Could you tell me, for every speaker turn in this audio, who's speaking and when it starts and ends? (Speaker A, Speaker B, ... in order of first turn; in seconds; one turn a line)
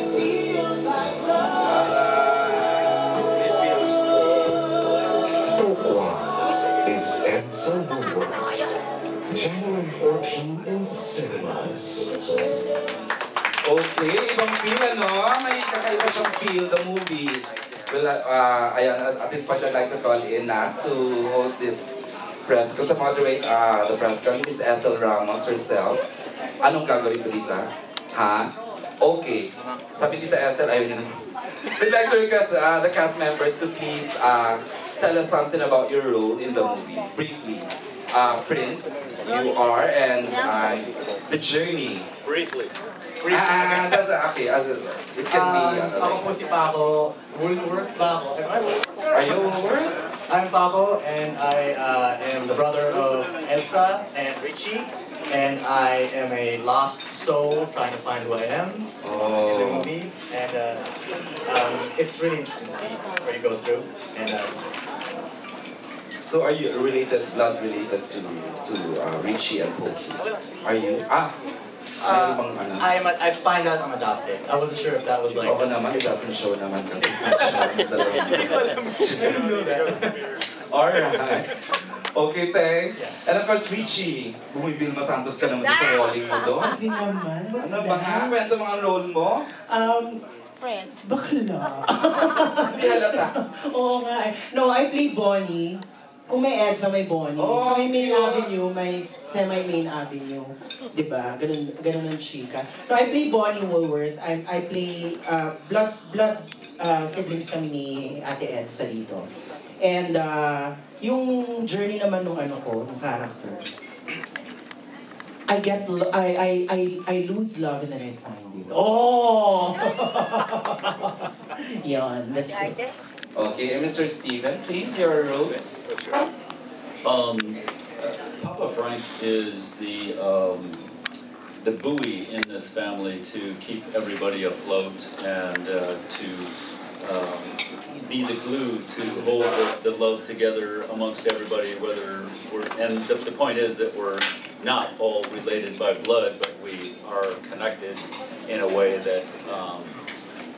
Speaker A: 1.4-3.1
Speaker B: 5.6-8.6
Speaker B: 9.3-12.1
Speaker A: 13.6-26.0
Speaker A: 26.6-28.5
Speaker A: 29.0-31.1
Speaker A: 31.8-42.1
Speaker C: 42.2-42.7
Speaker D: 43.2-44.0
Speaker A: 43.3-46.3
Speaker D: 45.3-60.9
Speaker A: 49.1-49.9
Speaker A: 59.0-59.9
Speaker D: 61.5-64.6
Speaker A: 66.1-71.3
Speaker A: 72.0-72.9
Speaker D: 72.0-75.7
Speaker A: 75.4-79.9
Speaker D: 77.2-79.8
Speaker A: 80.7-81.5
Speaker A: 82.1-86.7
Speaker E: 86.7-88.3
Speaker A: 87.6-89.4
Speaker E: 89.7-90.2
Speaker E: 91.0-109.3
Speaker A: 92.7-93.3
Speaker A: 97.4-98.5
Speaker E: 109.8-113.7
Speaker E: 115.5-122.8
Speaker A: 123.3-125.6
Speaker C: 127.0-130.8
Speaker C: 131.6-149.9